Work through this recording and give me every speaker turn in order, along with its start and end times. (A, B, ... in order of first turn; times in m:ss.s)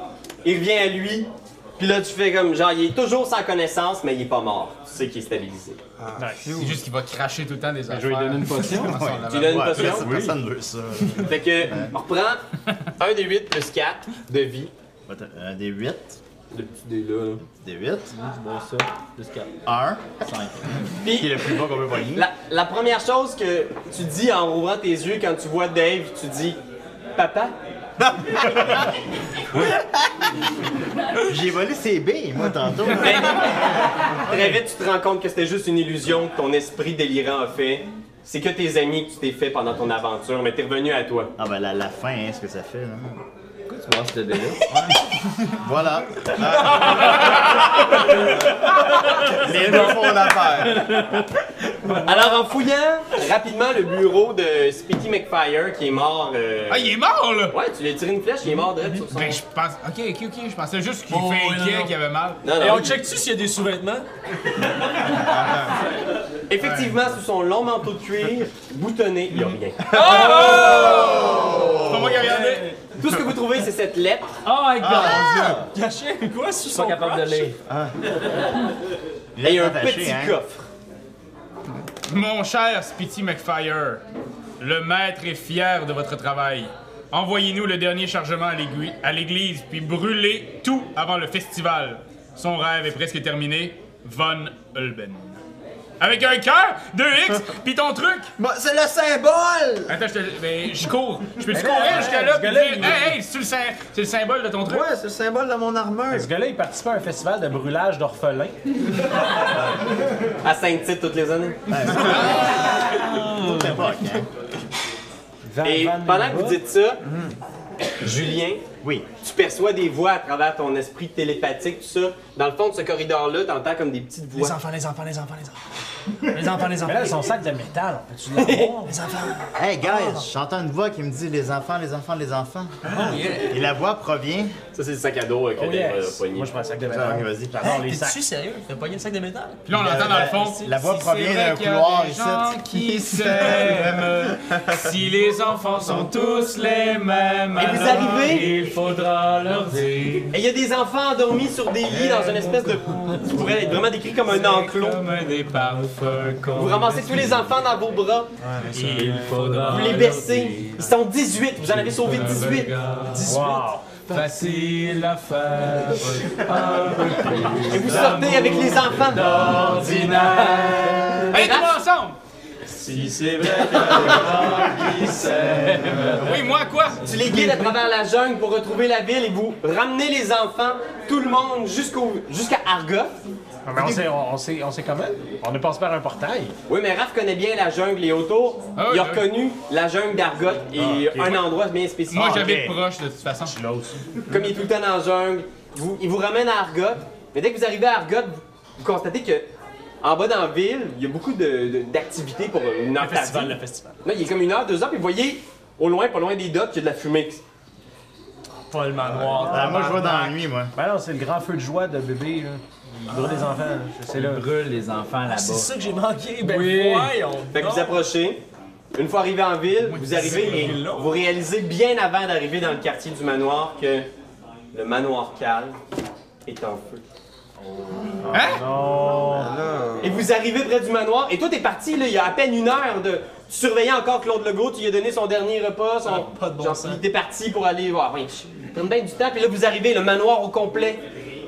0:00.4-0:05.8 A
0:06.0-0:06.8 B
0:06.1-0:06.5 C
0:06.5-0:09.8 D
0:07.9-0:09.1 C
0:08.7-0:11.9 E
0:09.3-0:10.3 A
0:09.7-0:10.4 C
0:11.2-0:12.4 A
0:13.0-0:14.7 A
0:15.1-0:16.2 E
0:16.5-0:17.4 A
0:17.6-0:18.1 E
0:18.1-0:19.5 F
0:19.6-0:22.3 E
0:21.0-0:21.6 A
0:22.1-0:26.6 A
0:27.2-0:27.5 A
0:28.0-0:28.9 B
0:29.5-0:30.1 B
0:31.2-0:33.4 E
0:32.9-0:41.3 A
0:34.3-0:34.6 C
0:41.4-0:43.2 E
0:43.7-0:44.6 F
0:45.5-0:46.2 E
0:46.3-0:48.7 B
0:46.9-0:47.4 D
0:49.2-0:51.2 B
0:49.4-0:49.9 E
0:52.0-0:56.9 A
0:56.7-0:57.6 D
0:57.5-0:59.4 A
0:59.0-1:02.8 D
1:01.1-1:02.0 G
1:02.4-1:03.0 A
1:02.5-1:04.0 G
1:05.0-1:05.7 B
1:06.5-1:11.2 A
1:06.6-1:06.9 D
1:09.9-1:12.2 B
1:09.9-1:12.8 D
1:10.1-1:11.0 G
1:12.1-1:12.8 G
1:12.9-1:14.3 A
1:13.0-1:13.4 B
1:14.4-1:15.6 F
1:14.8-1:15.6 E
1:14.8-1:15.1 B
1:15.6-1:17.5 G
1:16.7-1:17.6 F
1:19.4-1:20.4 E
1:19.4-1:20.6 A
1:22.0-1:24.0 D
1:24.6-1:35.4 D
1:36.0-1:38.3 D
1:38.4-1:40.0 B
1:39.9-1:44.9 D
1:41.4-1:43.2 C
1:44.6-1:46.3 B
1:46.1-1:48.6 C
1:50.4-1:52.1 A
1:51.7-1:54.3 E
1:52.0-1:52.6 D
1:52.1-1:54.2 G
1:55.4-1:56.6 C
1:55.6-1:57.0 A
1:57.0-1:57.4 B
1:58.0-1:58.6 A
1:59.2-2:04.6 A
2:04.3-2:05.6 G
2:06.1-2:07.3 G
2:06.8-2:09.0 C
2:08.3-2:08.8 A
2:08.8-2:10.2 G
2:09.6-2:12.8 E
2:12.9-2:13.6 G
2:13.5-2:14.5 E
2:14.7-2:16.5 A
2:15.6-2:18.2 C
2:16.9-2:17.7 E
2:17.6-2:19.7 G
2:19.7-2:30.3 D
2:19.7-2:22.6 E
2:22.7-2:25.1 B
2:27.6-2:28.5 A
2:27.6-2:30.3 F
2:30.3-2:35.0 A
2:31.9-2:33.2 D
2:34.4-2:36.5 D
2:34.7-2:35.0 F
2:35.6-2:37.3 F
2:36.5-2:38.3 A
2:38.4-2:39.1 B
2:38.7-2:39.9 G
2:38.7-2:40.9 F
2:39.6-2:42.7 A
2:41.8-2:43.5 F
2:43.2-2:43.9 C
2:44.1-2:51.2 F
2:47.7-2:49.5 A
2:47.8-2:48.6 G
2:49.7-2:51.3 E
2:51.2-2:51.7 A
2:51.3-2:52.2 D
2:52.6-2:56.0 G
2:53.4-2:56.4 F
2:53.7-2:54.2 A
2:56.1-2:57.0 D
2:57.0-3:03.1 A
2:57.0-2:57.7 G
3:03.6-3:06.5 C
3:06.7-3:12.4 A
3:08.8-3:09.3 D
3:10.8-3:11.4 C
3:12.1-3:13.6 D
3:12.1-3:12.8 E
3:12.3-3:12.7 C
3:13.3-3:14.0 C
3:14.3-3:19.5 A
3:20.0-3:27.4 A
3:23.0-3:23.9 G
3:28.7-3:30.1 G
3:29.2-3:34.5 C
3:29.4-3:30.7 E
3:34.1-3:35.7 F
3:35.3-3:38.0 G
3:36.4-3:37.2 F
3:37.5-3:38.4 A
3:38.9-3:44.0 A
3:39.8-3:41.1 D
3:44.7-3:45.8 A
3:46.4-3:47.0 A
3:47.7-3:49.6 C
3:48.3-3:48.6 D
3:48.8-3:50.3 B
3:50.0-4:01.0 A
3:56.0-3:57.0 G